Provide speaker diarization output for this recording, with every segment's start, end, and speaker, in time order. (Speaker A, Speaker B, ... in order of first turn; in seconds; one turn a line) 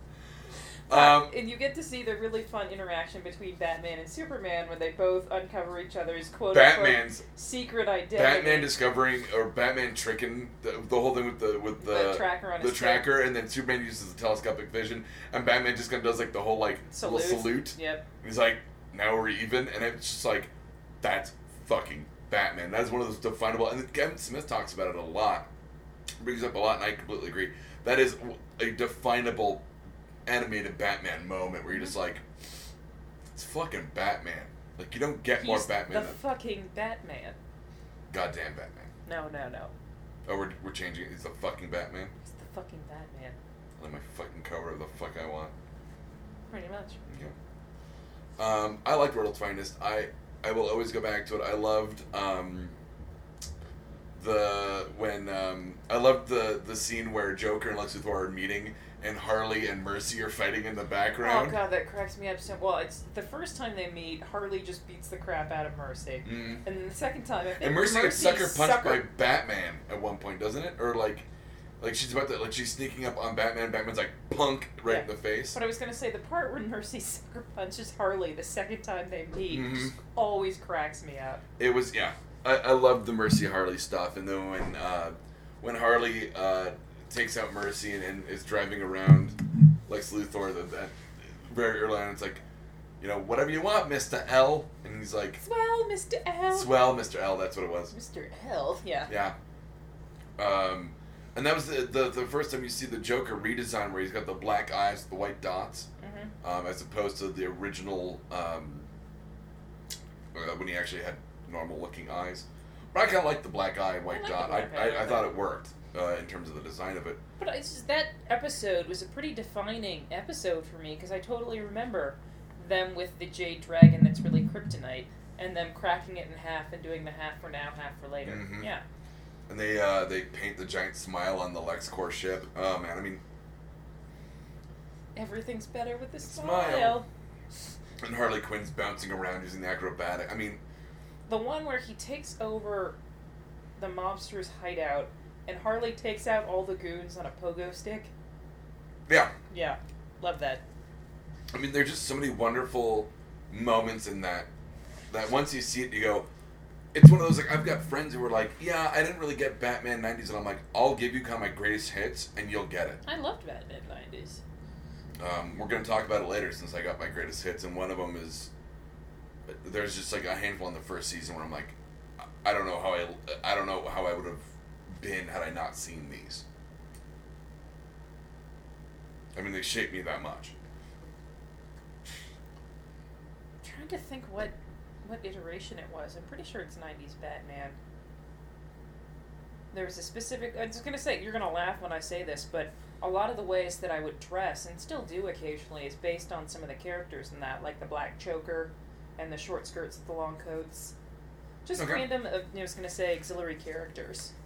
Speaker A: 0.9-1.3
Speaker B: 0.9-8.7
Speaker A: 6.5-7.2
Speaker A: 8.1-20.5
Speaker B: 11.8-13.1
Speaker B: 16.9-18.0
Speaker A: 21.0-25.5
Speaker A: 26.2-29.6
Speaker A: 30.2-32.2
Speaker A: 33.3-36.2
Speaker B: 35.4-37.4
Speaker A: 38.1-38.9
Speaker B: 39.0-39.7
Speaker A: 40.2-42.1
Speaker B: 42.2-43.4
Speaker A: 43.8-45.5
Speaker B: 46.5-47.0
Speaker A: 47.1-47.3
Speaker A: 48.4-52.7
Speaker A: 54.1-61.6
Speaker B: 61.2-69.0
Speaker A: 66.2-66.6
Speaker A: 67.6-71.3
Speaker A: 71.8-75.6
Speaker B: 74.8-81.4
Speaker A: 79.5-79.9
Speaker A: 81.6-92.4
Speaker A: 93.0-95.4
Speaker B: 95.4-96.8
Speaker A: 96.5-97.9
Speaker B: 97.9-99.1
Speaker A: 99.1-99.3
Speaker A: 100.4-105.9
Speaker B: 106.0-106.3
Speaker A: 106.4-108.9
Speaker A: 110.3-117.2
Speaker B: 114.1-115.3
Speaker B: 117.4-128.8
Speaker A: 128.2-128.7
Speaker A: 129.5-133.2
Speaker B: 135.1-137.1
Speaker A: 136.2-137.0
Speaker A: 138.0-140.6
Speaker B: 141.3-143.0
Speaker B: 143.8-148.1
Speaker A: 149.1-149.3
Speaker B: 149.5-150.6
Speaker A: 151.5-154.5
Speaker A: 155.1-156.3
Speaker A: 156.9-163.0
Speaker B: 163.0-164.4
Speaker A: 165.2-168.5
Speaker A: 169.5-171.7
Speaker A: 172.4-176.4
Speaker A: 179.3-180.5
Speaker B: 183.6-187.8
Speaker B: 189.7-200.9
Speaker B: 201.6-204.3
Speaker A: 201.8-202.1